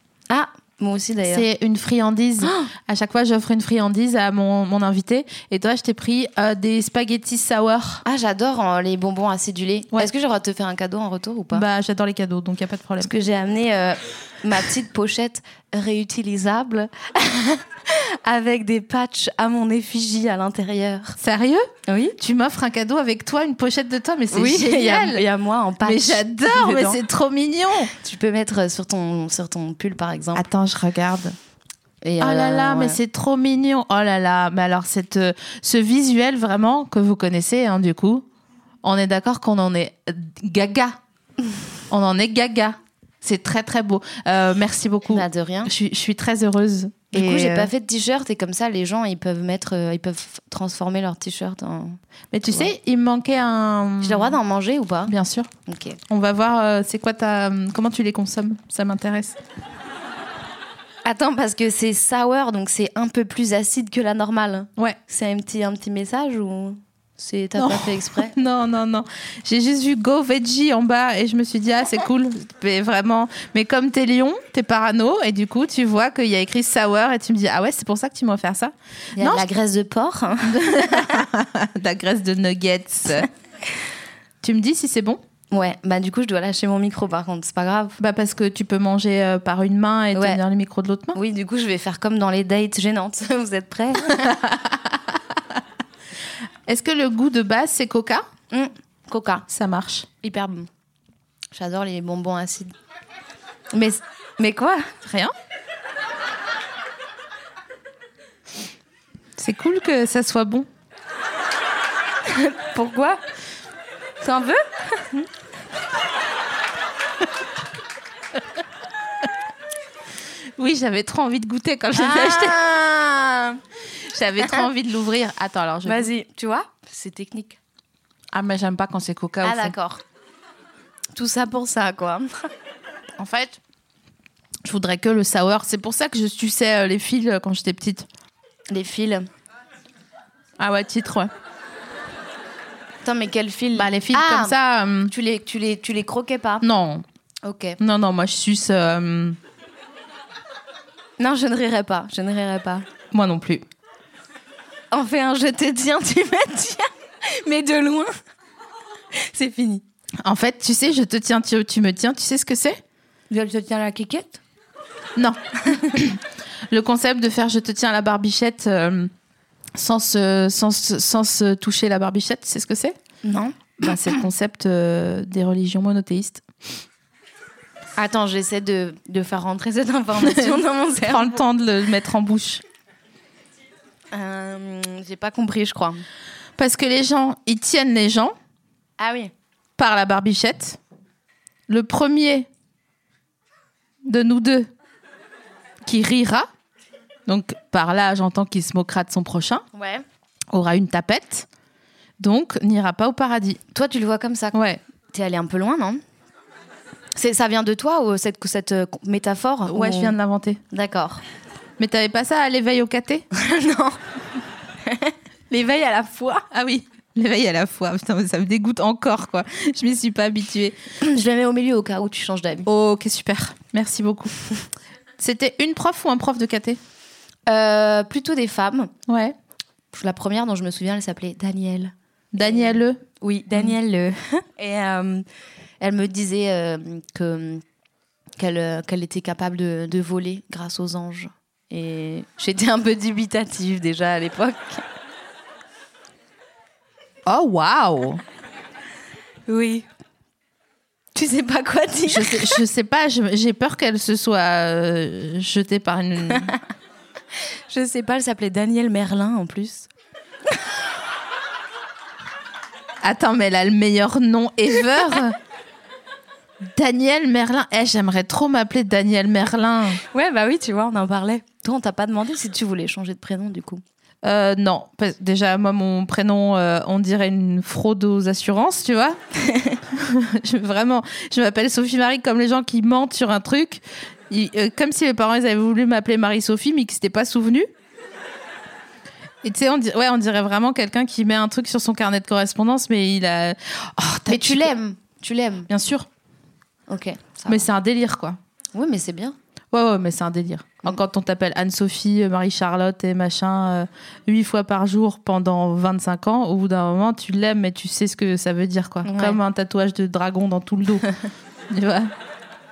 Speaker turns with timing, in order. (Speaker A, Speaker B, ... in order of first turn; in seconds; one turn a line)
Speaker A: 0.3-1.5
Speaker B: 1.3-8.0
Speaker A: 2.4-2.7
Speaker A: 8.0-11.7
Speaker B: 11.5-13.1
Speaker A: 13.0-21.2
Speaker B: 21.2-25.2
Speaker A: 21.9-22.2
Speaker A: 24.3-27.0
Speaker B: 25.8-27.9
Speaker A: 27.9-30.5
Speaker B: 30.4-31.4
Speaker A: 32.0-33.0
Speaker B: 32.2-38.2
Speaker B: 38.8-41.0
Speaker B: 41.9-47.7
Speaker A: 45.1-45.7
Speaker A: 47.1-52.7
Speaker B: 52.3-54.4
Speaker A: 54.0-55.1
Speaker B: 55.1-55.5
Speaker A: 55.7-56.0
Speaker B: 56.1-59.4
Speaker A: 61.0-68.4
Speaker B: 67.6-79.5
Speaker A: 79.2-81.2
Speaker B: 80.5-83.3
Speaker B: 84.4-85.2
Speaker A: 85.5-88.0
Speaker B: 88.0-91.2
Speaker A: 90.2-90.4
Speaker A: 91.1-94.3
Speaker B: 94.1-95.2
Speaker B: 96.7-98.2
Speaker A: 98.5-99.5
Speaker B: 99.5-100.1
Speaker A: 100.2-100.7
Speaker A: 101.5-102.7
Speaker A: 103.7-104.9
Speaker B: 105.0-105.3
Speaker B: 109.4-110.7
Speaker A: 112.3-113.2
Speaker A: 114.2-115.2
Speaker B: 120.6-126.1
Speaker A: 122.0-122.7
Speaker A: 125.8-127.6
Speaker B: 128.3-129.8
Speaker A: 129.4-130.0
Speaker A: 131.2-132.5
Speaker B: 133.2-133.6
Speaker B: 134.6-138.1
Speaker A: 138.7-139.3
Speaker B: 140.6-141.3
Speaker A: 143.0-146.7
Speaker B: 143.8-145.1
Speaker B: 146.6-147.1
Speaker A: 147.4-147.8
Speaker B: 147.8-149.4
Speaker A: 151.2-152.9
Speaker B: 153.1-153.7
Speaker A: 154.9-158.1
Speaker A: 159.2-159.8
Speaker B: 160.2-162.8
Speaker A: 163.3-164.4
Speaker B: 165.2-169.1
Speaker B: 169.8-173.0
Speaker A: 173.2-174.1
Speaker B: 173.8-176.4
Speaker A: 178.0-181.4
Speaker B: 180.2-182.6
Speaker A: 184.1-186.0
Speaker B: 186.6-188.3
Speaker A: 189.0-189.3
Speaker B: 189.8-190.8
Speaker B: 191.7-192.5
Speaker B: 194.0-194.7
Speaker B: 195.8-196.5
Speaker B: 197.3-199.7
Speaker A: 199.7-200.1
Speaker B: 200.5-201.5
Speaker B: 202.2-203.6
Speaker A: 203.7-204.6
Speaker B: 204.5-204.8
Speaker A: 205.1-206.0
Speaker A: 207.2-210.2
Speaker B: 209.7-210.6
Speaker A: 210.7-211.2
Speaker B: 211.8-213.3
Speaker A: 213.3-214.0
Speaker A: 214.9-216.5
Speaker B: 216.5-220.8
Speaker A: 221.0-222.7
Speaker B: 222.7-224.5
Speaker B: 225.2-226.8
Speaker A: 227.5-228.9
Speaker B: 229.1-229.3
Speaker A: 229.9-235.3
Speaker B: 232.3-233.0
Speaker A: 235.8-237.6
Speaker A: 238.4-244.8
Speaker B: 247.3-248.2
Speaker A: 249.5-249.9
Speaker A: 251.2-252.6
Speaker B: 252.1-256.6
Speaker A: 257.7-259.9
Speaker B: 263.0-265.4
Speaker B: 266.7-270.0
Speaker A: 270.1-273.8
Speaker B: 274.2-279.2
Speaker A: 279.5-279.8
Speaker B: 279.9-287.7
Speaker B: 289.4-294.7
Speaker A: 294.3-295.7
Speaker B: 295.7-296.1
Speaker A: 296.9-297.7
Speaker B: 297.5-298.4
Speaker A: 298.7-299.4
Speaker B: 299.7-311.1
Speaker A: 309.1-309.4
Speaker B: 311.7-312.1